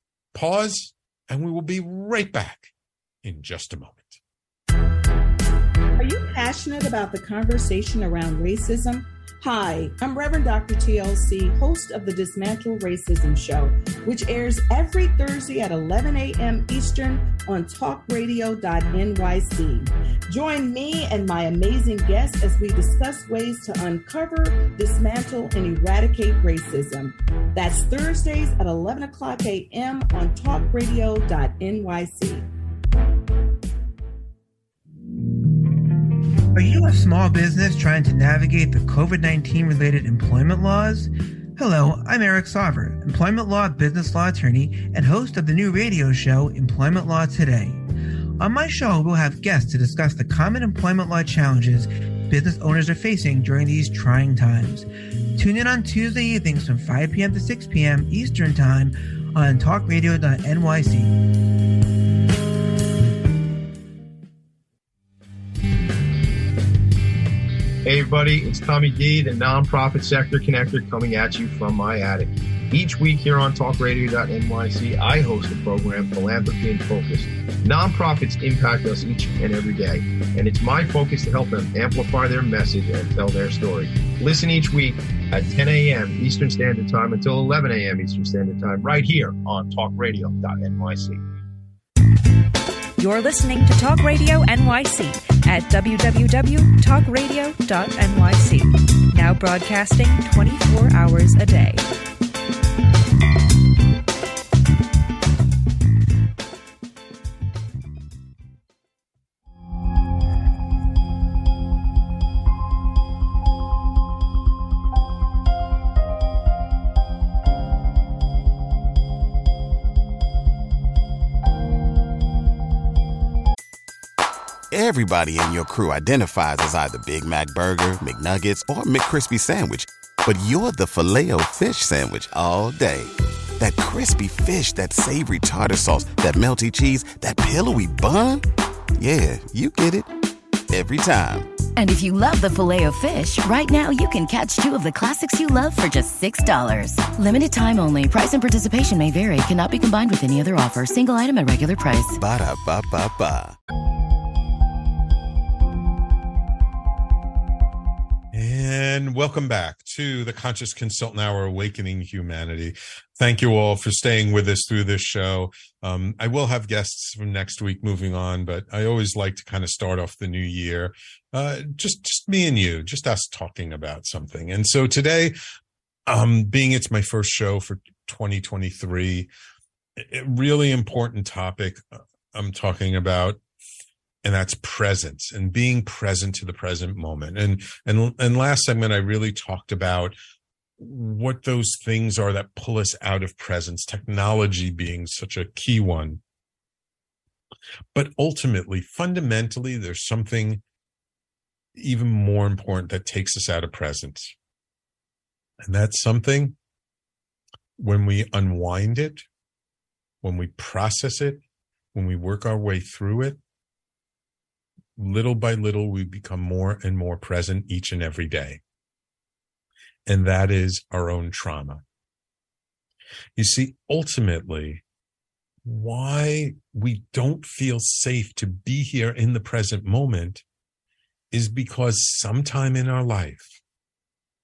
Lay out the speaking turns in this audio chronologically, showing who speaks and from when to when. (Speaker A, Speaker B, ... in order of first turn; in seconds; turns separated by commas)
Speaker A: 0.3-2.7, Speaker A: 3.2-4.2, Speaker B: 6.0-32.5, Speaker C: 36.5-47.8, Speaker C: 48.4-61.2, Speaker D: 67.8-91.2, Speaker E: 93.0-101.9, Speaker F: 124.7-138.4, Speaker F: 139.0-140.1, Speaker F: 140.7-141.5, Speaker G: 141.8-152.2, Speaker F: 152.2-153.6, Speaker A: 158.3-175.3, Speaker A: 176.1-179.3, Speaker A: 180.0-183.4, Speaker A: 184.2-190.2, Speaker A: 190.8-196.2, Speaker A: 197.9-200.6, Speaker A: 201.7-204.3, Speaker A: 205.6-206.6, Speaker A: 207.8-209.2, Speaker A: 210.2-211.4, Speaker A: 211.9-213.4, Speaker A: 215.0-218.6, Speaker A: 220.1-221.8, Speaker A: 223.3-224.8, Speaker A: 225.6-230.4, Speaker A: 231.3-233.6